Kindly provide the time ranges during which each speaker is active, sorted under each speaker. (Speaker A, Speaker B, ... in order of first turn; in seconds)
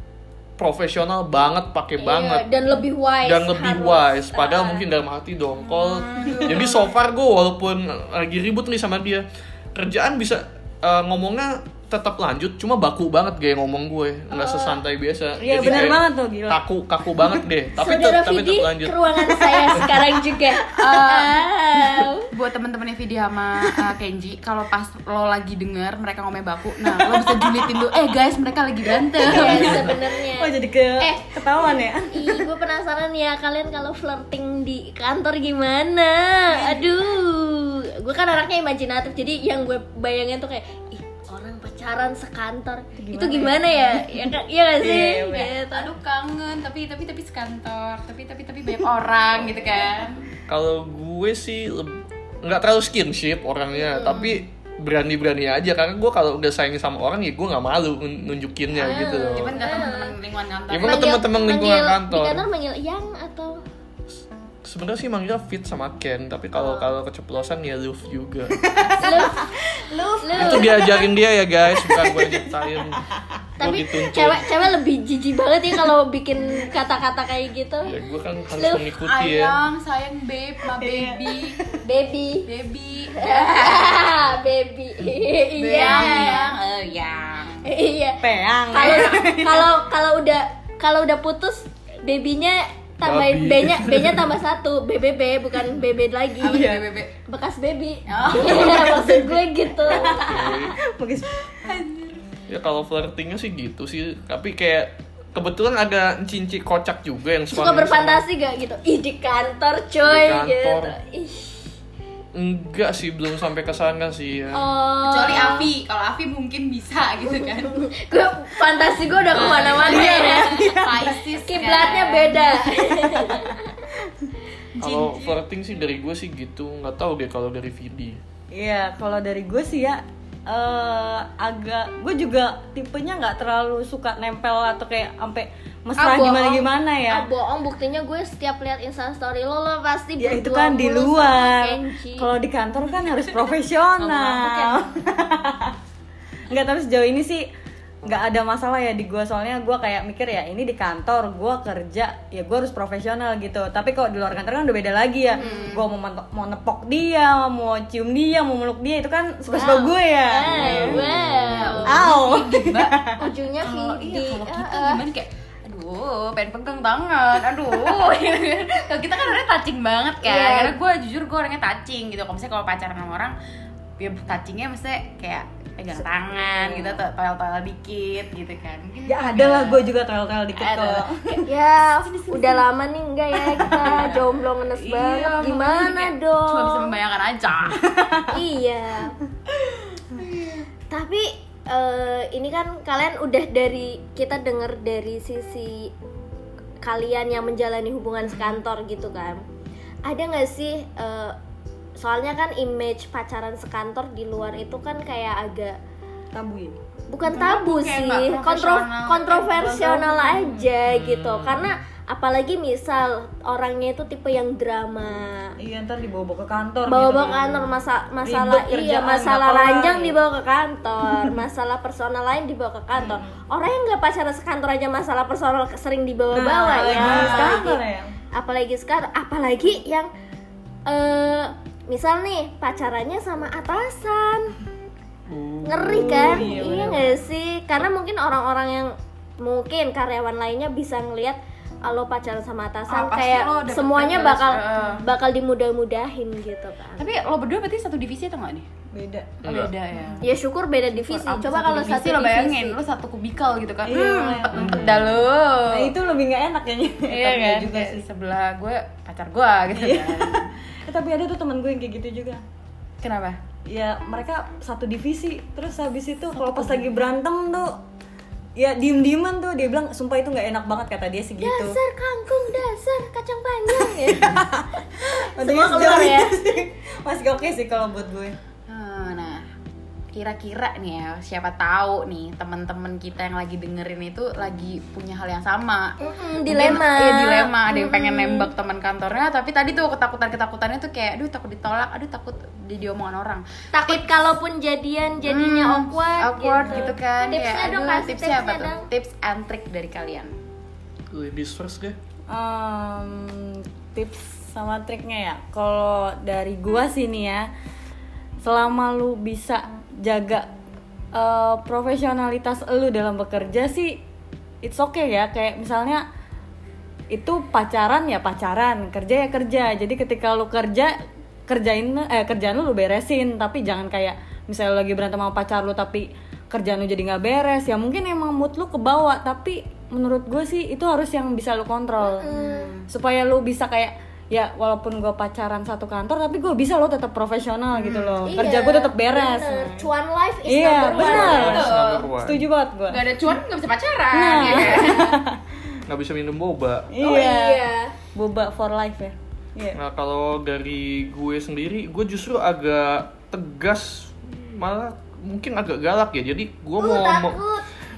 Speaker A: 0.6-2.5, 3.2-19.0, 50.5-59.6, 60.7-62.4, 64.6-68.6, 70.4-73.0, 73.6-74.4, 77.9-79.6, 93.0-94.4, 99.9-100.8, 102.5-108.2, 110.0-110.9, 112.3-114.7, 124.8-128.2, 160.5-161.8, 210.9-211.7, 226.9-227.6, 235.3-236.4, 249.4-249.7, 254.5-255.2, 301.1-302.0, 340.9-342.5, 344.4-344.9, 345.9-346.9, 349.7-357.4
Speaker B: 2.0-4.8, 14.3-14.8, 17.8-22.3, 29.2-31.4, 32.1-45.9, 53.9-54.3, 58.8-60.1, 60.8-63.6, 66.5-66.9, 69.0-69.5, 70.2-70.8, 73.6-77.9, 78.5-78.8, 81.8-82.5, 83.2-86.5, 87.6-96.7, 97.3-100.3, 107.5-111.7, 114.5-115.7, 117.7-120.7, 121.4-123.9, 136.0-142.3, 155.4-155.7, 159.5-162.0, 163.2-165.0, 170.2-170.7, 181.4-186.9, 188.3-189.2, 190.9-195.9, 196.8-199.4, 200.0-201.4, 202.0-205.8, 207.1-215.5, 216.9-227.8, 228.3-230.1, 230.9-234.5, 235.7-247.1, 250.2-252.8, 271.4-274.4, 275.1-276.3, 286.0-288.5, 293.7-298.9, 332.0-332.7, 338.3-341.6, 344.5-345.0, 347.0-347.9, 356.8-357.6
Speaker C: 5.6-6.9, 20.8-21.5, 22.3-29.9, 36.5-37.0, 44.8-50.3, 54.0-54.3, 58.9-61.2, 68.8-69.4, 70.0-70.5, 79.0-81.6, 82.5-84.1, 85.6-87.6, 88.8-89.2, 96.4-97.1, 98.1-99.2, 101.6-102.2, 115.0-117.8, 119.2-122.6, 124.7-125.4, 144.0-145.2, 155.3-155.8, 160.6-163.0, 163.6-173.3, 174.0-179.9, 180.5-181.4, 182.0-182.6, 183.3-188.0, 190.1-190.7, 207.2-210.2, 227.0-227.3, 236.5-236.9, 242.9-245.0, 247.0-248.7, 249.4-250.2, 250.9-255.9, 257.1-260.5, 263.0-263.4, 266.3-266.9, 278.7-279.4, 280.1-294.0, 295.2-300.4, 332.3-332.9, 337.7-338.4, 341.1-342.1, 342.9-345.2
Speaker D: 15.4-16.6, 17.2-17.4, 19.4-20.0, 26.9-27.9, 28.9-32.5, 43.0-44.2, 68.6-71.1, 71.7-73.0, 80.7-81.8, 85.8-86.3, 88.2-89.7, 96.5-96.8, 98.4-99.3, 99.8-101.7, 119.6-121.2, 128.5-137.3, 140.2-145.7, 146.5-147.5, 148.0-160.9, 161.8-163.2, 179.1-181.4, 187.8-188.3, 206.3-206.8, 210.2-210.7, 215.6-217.7, 218.2-220.2, 222.9-223.4, 226.3-228.2, 235.8-237.1, 248.9-249.4, 253.8-254.9, 255.7-258.0, 259.7-262.4, 263.7-267.8, 268.6-271.8, 274.1-278.4, 296.6-296.9, 302.3-307.5, 308.4-310.5, 311.1-314.0, 314.6-316.1, 317.1-320.9, 321.5-332.3, 332.9-339.7, 340.4-343.3, 344.1-345.4, 346.9-347.6, 348.1-349.8